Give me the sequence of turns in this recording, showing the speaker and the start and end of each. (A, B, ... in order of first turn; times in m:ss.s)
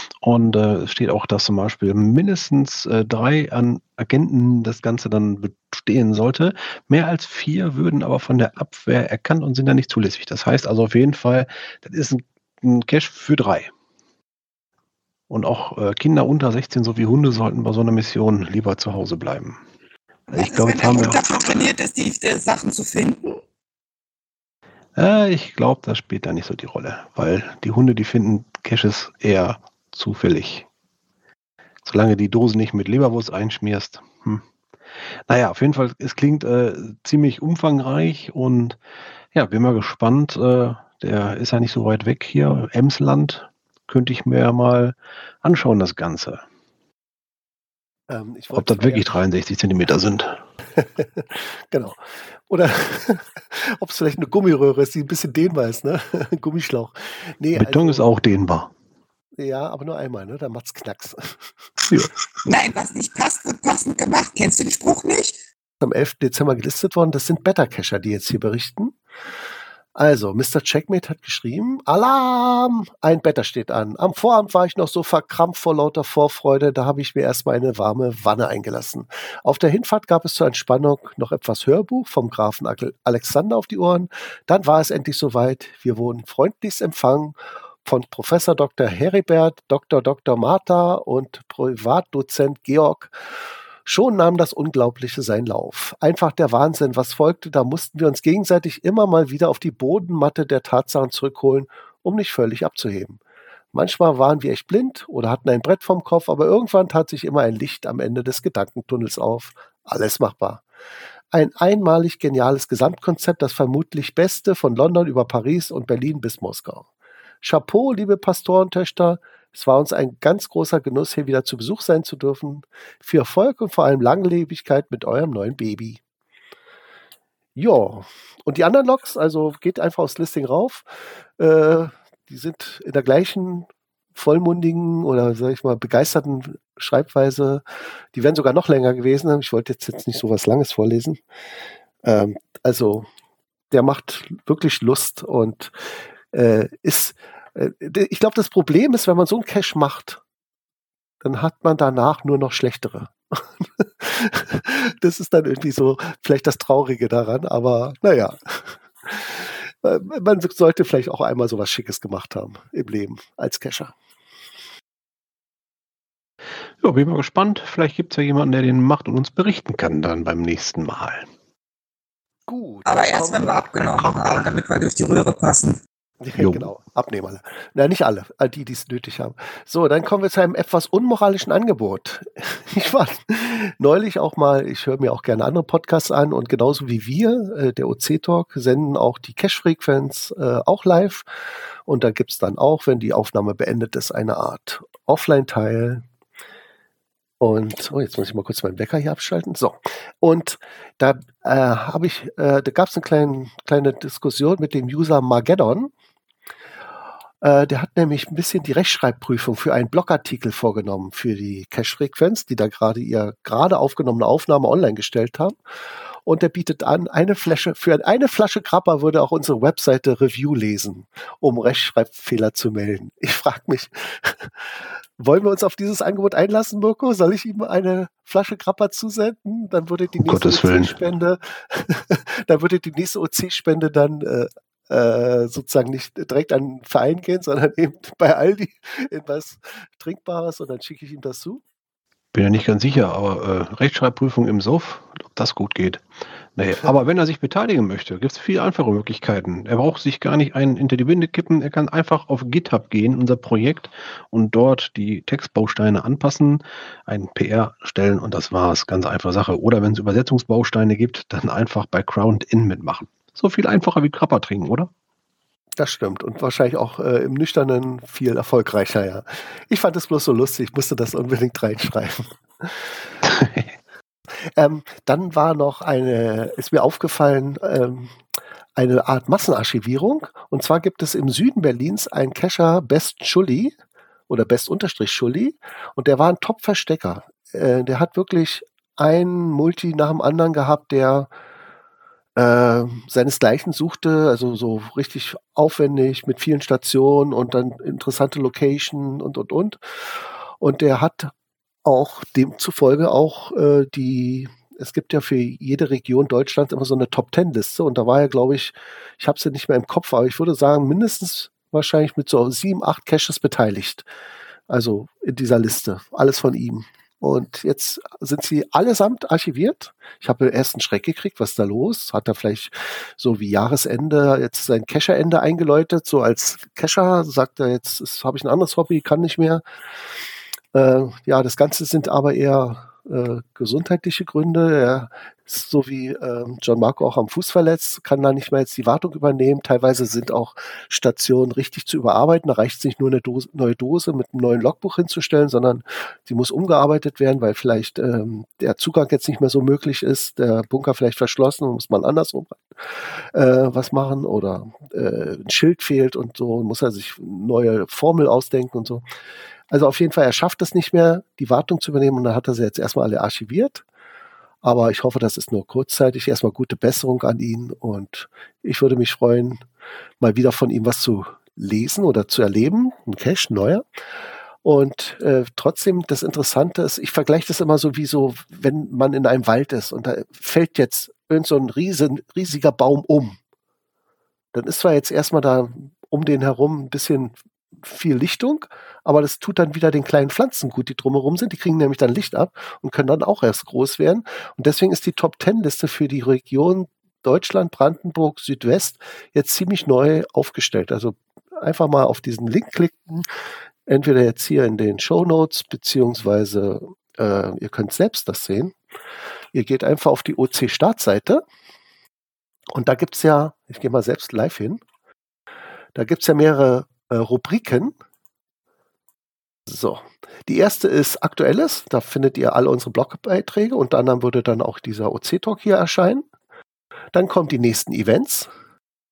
0:00.2-0:13.7 A
0:15.3-0:19.6 A
0:20.3-0:23.2 B
0:20.3-0:21.2 A
0:25.0-0:30.7 A
0:31.8-0:34.4 A
0:35.3-0:38.8 A
0:39.3-0:46.4 A
0:48.1-0:49.2 C
0:48.5-0:50.4 A
0:50.8-0:58.1 C
0:57.6-0:58.7 A
0:59.4-1:01.5 C
1:02.4-1:05.4 B
1:05.8-1:09.0 C
1:10.0-1:33.2 C
1:33.8-1:43.2 C
1:43.7-1:50.6 C
1:51.3-1:56.9 C
1:57.4-2:06.0 C
2:07.6-2:21.2 C
2:22.0-2:23.1 C
2:23.7-2:25.8 C
2:26.3-2:30.2 C
2:31.2-2:43.9 C
2:46.8-2:51.3 A
2:52.5-2:54.1 C
2:52.9-2:55.8 B
2:56.2-3:11.3 C
2:56.4-2:56.7 A
3:11.9-3:16.0 C
3:17.4-3:25.9 C
3:27.4-3:35.6 C
3:36.2-4:01.6 C
3:50.2-3:51.0 A
4:02.3-4:24.9 A
4:25.8-4:32.9 C
4:33.2-4:33.7 A
4:34.6-4:38.2 C
4:38.8-4:43.8 C
4:44.3-4:51.3 C
4:52.4-5:01.3 C
5:01.8-5:14.1 C
5:14.7-5:29.6 C
5:30.7-5:59.0 C
5:59.7-6:03.8 C
6:04.6-6:09.6 C
6:10.2-6:13.8 C
6:14.6-6:23.4 C
6:24.5-6:43.2 C
6:43.9-6:48.8 C
6:49.5-6:51.4 C
6:52.7-6:54.8 C
6:56.0-6:58.0 C
6:59.7-7:06.3 C
7:07.1-7:08.5 C